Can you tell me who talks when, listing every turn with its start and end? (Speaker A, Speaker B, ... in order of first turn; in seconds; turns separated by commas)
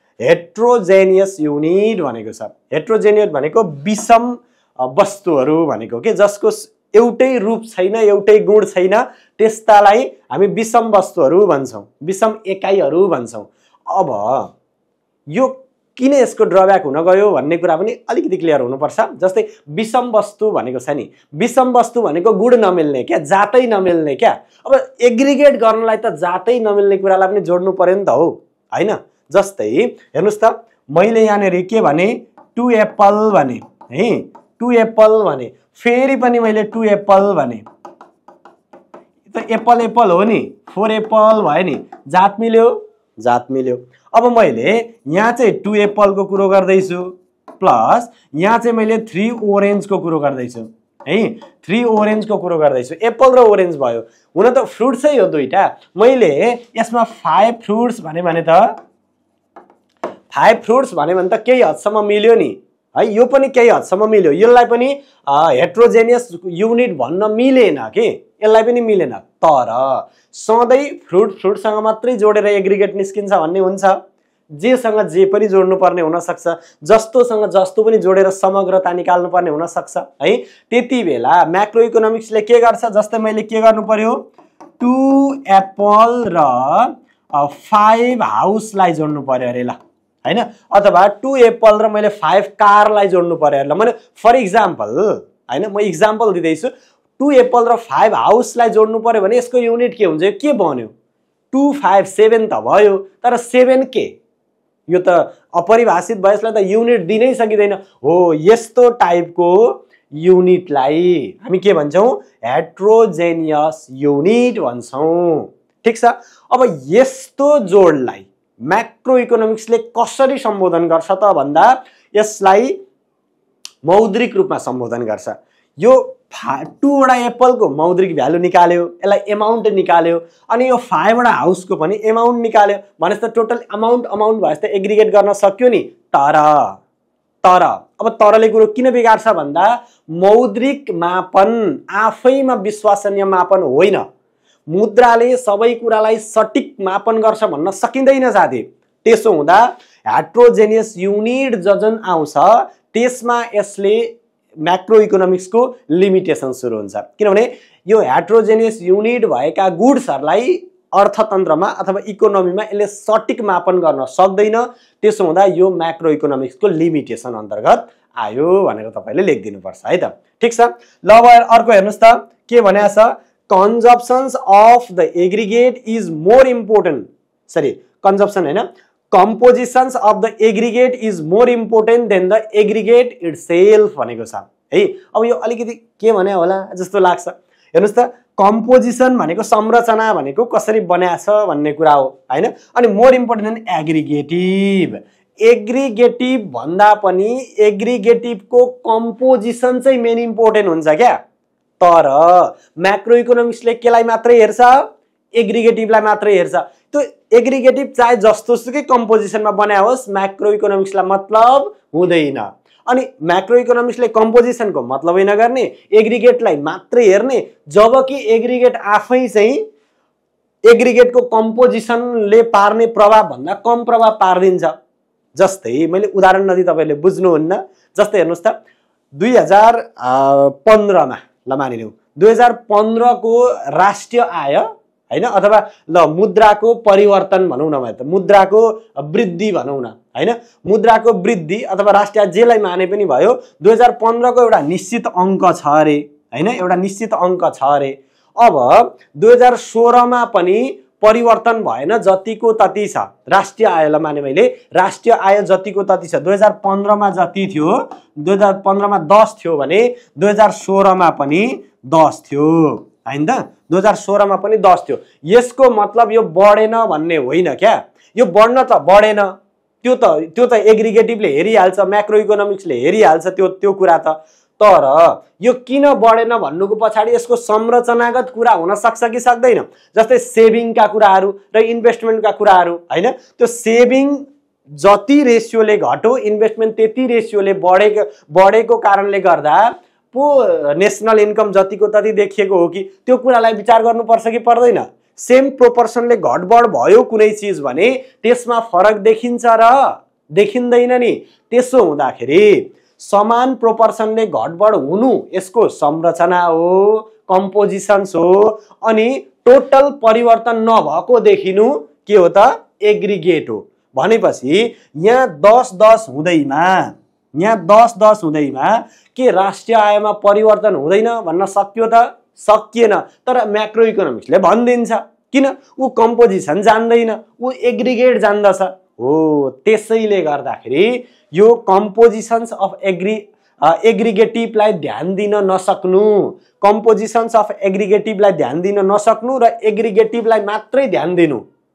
Speaker A: 0.2-14.5, Speaker A: 15.3-37.6, Speaker A: 39.3-58.7, Speaker A: 60.3-74.0, Speaker A: 74.5-84.2, Speaker A: 84.8-100.9, Speaker A: 101.5-104.1, Speaker A: 104.9-122.8, Speaker A: 123.8-136.8, Speaker A: 137.4-144.0, Speaker A: 144.7-201.2, Speaker A: 201.8-204.8, Speaker A: 205.3-219.6, Speaker A: 220.7-224.7, Speaker A: 225.3-228.5, Speaker A: 229.1-269.3, Speaker A: 269.8-299.8, Speaker A: 300.4-341.4